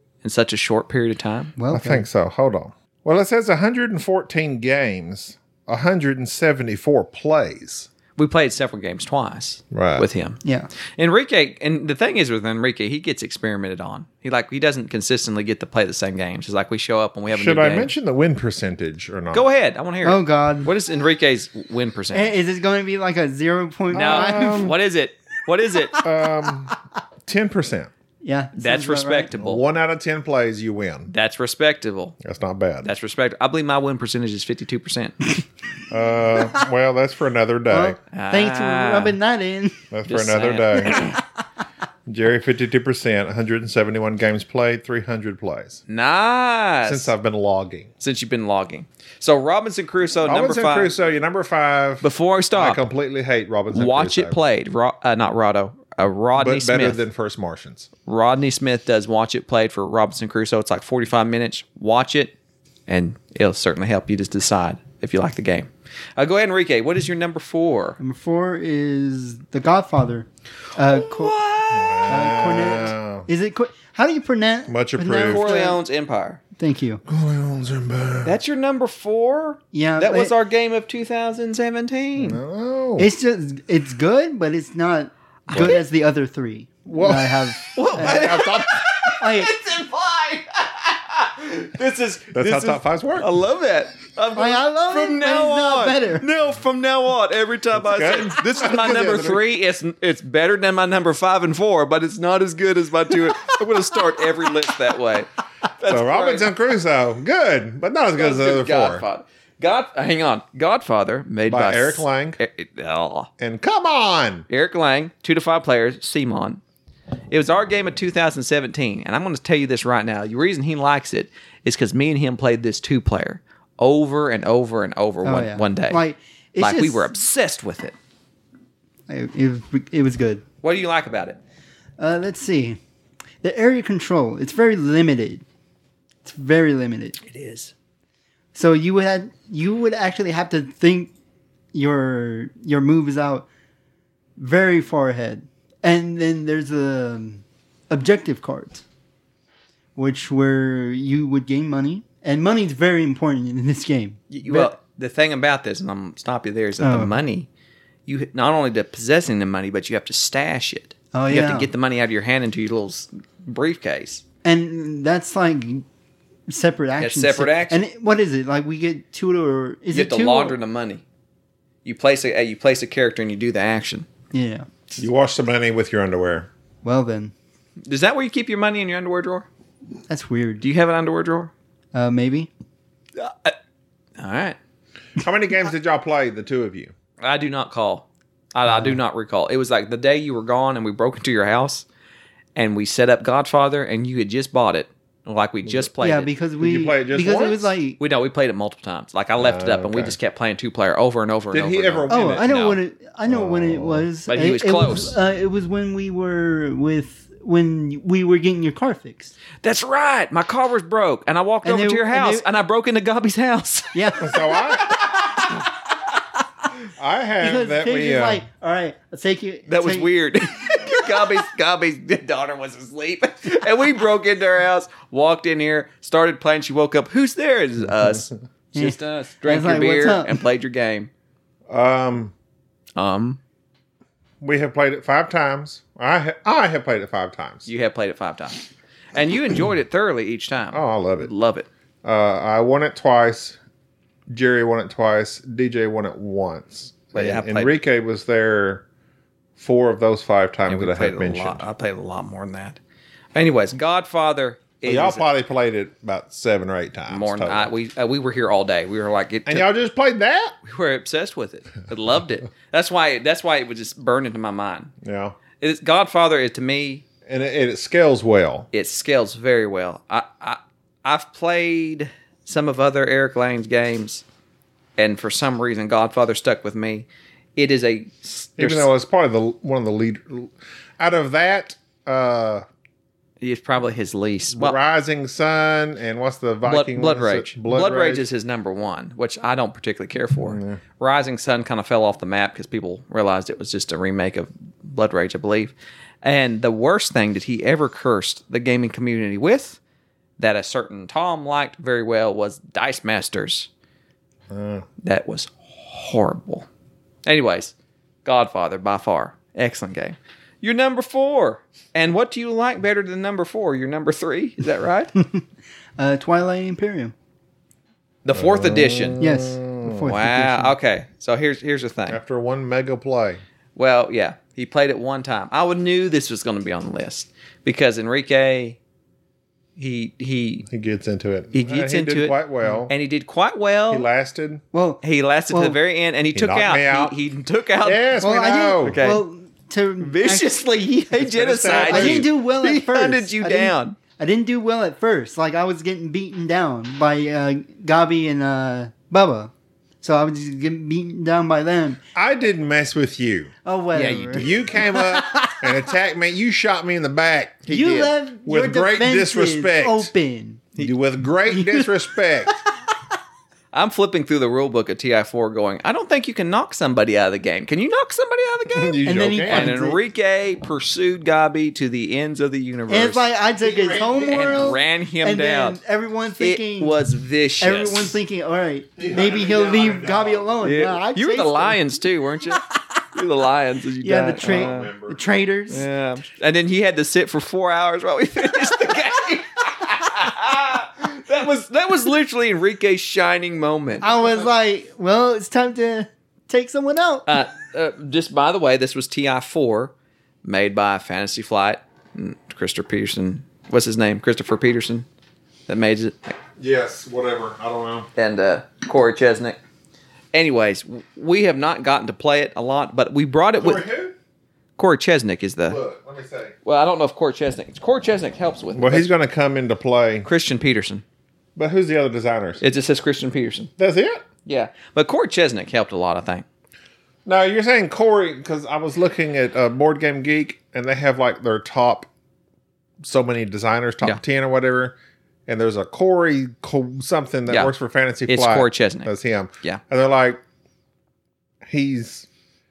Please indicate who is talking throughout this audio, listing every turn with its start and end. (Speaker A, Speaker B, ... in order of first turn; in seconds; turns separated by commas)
Speaker A: 0.2-1.5, Speaker B: 1.6-2.0, Speaker C: 1.7-7.9, Speaker A: 8.2-10.4, Speaker C: 9.7-10.1, Speaker B: 10.4-10.7, Speaker A: 11.0-17.9, Speaker C: 17.3-19.5, Speaker A: 19.3-22.3, Speaker B: 20.0-20.7, Speaker B: 22.1-24.8, Speaker C: 23.9-24.8, Speaker A: 23.9-26.0, Speaker C: 26.0-27.9, Speaker B: 28.2-29.3, Speaker A: 28.6-29.6, Speaker C: 29.4-31.1, Speaker A: 31.1-32.2, Speaker C: 32.2-32.9, Speaker A: 32.8-35.4, Speaker C: 35.9-38.0, Speaker B: 37.7-39.8, Speaker A: 38.1-39.2, Speaker C: 39.9-41.1, Speaker A: 40.1-41.2, Speaker C: 42.1-45.8, Speaker A: 45.9-47.1, Speaker C: 46.9-47.9, Speaker A: 48.0-50.9, Speaker C: 50.2-54.4, Speaker A: 52.0-52.8, Speaker A: 53.7-57.0, Speaker C: 56.4-57.9, Speaker A: 58.1-62.3, Speaker A: 62.9-68.0, Speaker B: 68.0-71.4, Speaker A: 70.9-72.4, Speaker C: 71.7-73.3, Speaker B: 72.1-75.8, Speaker C: 74.7-75.5, Speaker A: 75.3-76.4, Speaker B: 76.6-77.0, Speaker C: 77.1-78.4, Speaker A: 78.2-82.4, Speaker B: 79.7-80.3, Speaker C: 82.2-83.1, Speaker B: 83.0-88.5, Speaker C: 85.5-85.8, Speaker C: 86.9-88.9, Speaker A: 87.8-106.5, Speaker B: 89.2-89.5, Speaker C: 92.3-93.3, Speaker B: 94.3-96.3, Speaker C: 97.8-99.4, Speaker C: 105.9-109.0, Speaker A: 108.2-113.3, Speaker C: 111.5-112.4, Speaker C: 113.4-114.5, Speaker A: 114.5-116.6, Speaker A: 117.3-126.0, Speaker B: 125.2-127.1, Speaker A: 126.6-128.0, Speaker B: 129.1-130.4, Speaker A: 130.6-131.4, Speaker B: 132.0-132.8, Speaker B: 133.4-135.4, Speaker B: 136.2-137.2, Speaker A: 137.2-137.7, Speaker B: 138.6-141.1, Speaker B: 141.7-143.5, Speaker B: 144.4-148.8, Speaker B: 150.0-154.7, Speaker A: 154.3-157.5, Speaker B: 156.8-157.2, Speaker A: 158.1-164.2, Speaker B: 161.1-161.7, Speaker B: 164.4-165.9, Speaker B: 166.5-170.6, Speaker A: 167.0-167.8, Speaker A: 169.9-171.0, Speaker A: 171.8-174.1, Speaker B: 174.3-174.7, Speaker C: 175.0-176.5, Speaker B: 176.8-177.3, Speaker A: 177.8-179.5, Speaker B: 180.1-180.6, Speaker A: 180.6-181.5, Speaker B: 181.9-182.5, Speaker A: 183.2-183.6, Speaker A: 184.2-184.6, Speaker C: 185.2-186.9, Speaker A: 187.2-191.9, Speaker B: 188.7-189.0, Speaker A: 192.6-196.3, Speaker B: 196.0-198.0, Speaker C: 196.6-197.7, Speaker A: 198.0-202.8, Speaker C: 199.4-200.2, Speaker C: 201.5-202.6, Speaker B: 202.1-209.3, Speaker C: 203.3-204.1, Speaker A: 204.3-205.2, Speaker A: 209.6-215.5, Speaker B: 211.6-212.4, Speaker B: 213.9-214.8, Speaker C: 214.2-214.9, Speaker C: 217.0-218.4, Speaker B: 217.4-220.1, Speaker A: 219.7-231.1, Speaker B: 228.7-230.4, Speaker C: 231.7-232.3, Speaker A: 233.0-233.4, Speaker C: 234.4-237.7, Speaker A: 237.7-238.6, Speaker A: 239.1-241.7, Speaker C: 240.7-241.3, Speaker C: 242.0-243.6, Speaker C: 244.3-248.8, Speaker A: 247.1-247.8, Speaker C: 249.6-251.7, Speaker A: 250.7-252.8, Speaker A: 253.3-255.3, Speaker C: 254.8-257.7, Speaker A: 257.1-259.7, Speaker C: 259.5-260.6, Speaker A: 260.6-264.9, Speaker C: 265.0-265.4, Speaker A: 265.6-267.0, Speaker C: 267.3-268.7, Speaker A: 268.7-274.2, Speaker A: 275.0-278.9, Speaker C: 278.6-282.6, Speaker A: 283.4-284.8, Speaker C: 284.5-288.2, Speaker A: 286.6-299.8, Speaker C: 290.4-290.8, Speaker A: 300.4-303.7, Speaker C: 304.5-304.9, Speaker A: 305.0-306.7, Speaker A: 307.3-307.7, Speaker A: 308.2-315.1, Speaker B: 315.2-315.4, Speaker B: 316.0-317.1, Speaker A: 318.2-319.2, Speaker C: 318.3-320.1, Speaker B: 319.2-320.8, Speaker A: 320.1-322.2, Speaker C: 322.1-323.4, Speaker A: 323.8-328.8, Speaker A: 329.8-330.7, Speaker C: 330.7-332.9, Speaker A: 331.5-332.4, Speaker A: 332.9-334.1, Speaker C: 333.9-334.6, Speaker B: 334.7-335.8, Speaker A: 335.0-338.1, Speaker C: 336.3-337.2, Speaker C: 337.8-339.0, Speaker B: 338.2-340.6, Speaker A: 338.8-339.2, Speaker A: 340.0-344.0, Speaker C: 341.2-342.3, Speaker B: 341.7-352.0, Speaker C: 352.1-353.5, Speaker B: 353.6-355.6, Speaker A: 353.9-354.7, Speaker C: 354.4-357.7, Speaker A: 357.7-358.1, Speaker B: 357.7-360.8, Speaker C: 358.4-360.1, Speaker C: 360.8-362.6, Speaker B: 361.5-362.1, Speaker A: 363.7-373.2, Speaker C: 368.7-369.7, Speaker B: 369.0-370.0, Speaker B: 372.9-377.0, Speaker C: 373.6-374.8, Speaker A: 374.3-375.8, Speaker A: 376.4-378.2, Speaker B: 377.6-381.8, Speaker C: 379.0-380.5, Speaker A: 380.6-382.6, Speaker A: 383.1-384.9, Speaker B: 384.0-385.9, Speaker C: 384.4-385.2, Speaker A: 385.7-394.1, Speaker B: 394.0-397.3, Speaker A: 397.3-399.9, Speaker A: 400.4-405.1, Speaker A: 405.7-406.4, Speaker C: 406.6-408.1, Speaker A: 408.2-409.6, Speaker A: 410.3-413.8, Speaker C: 413.6-414.1, Speaker A: 414.8-415.8, Speaker C: 415.7-416.6, Speaker A: 416.6-419.1, Speaker C: 418.8-420.3, Speaker A: 420.2-421.0, Speaker C: 421.6-422.6, Speaker A: 422.6-423.7, Speaker C: 423.8-424.2, Speaker A: 424.5-426.5, Speaker C: 427.3-432.1, Speaker C: 433.0-434.9, Speaker C: 435.5-440.4, Speaker A: 437.5-437.7, Speaker A: 438.3-439.8, Speaker C: 441.7-442.3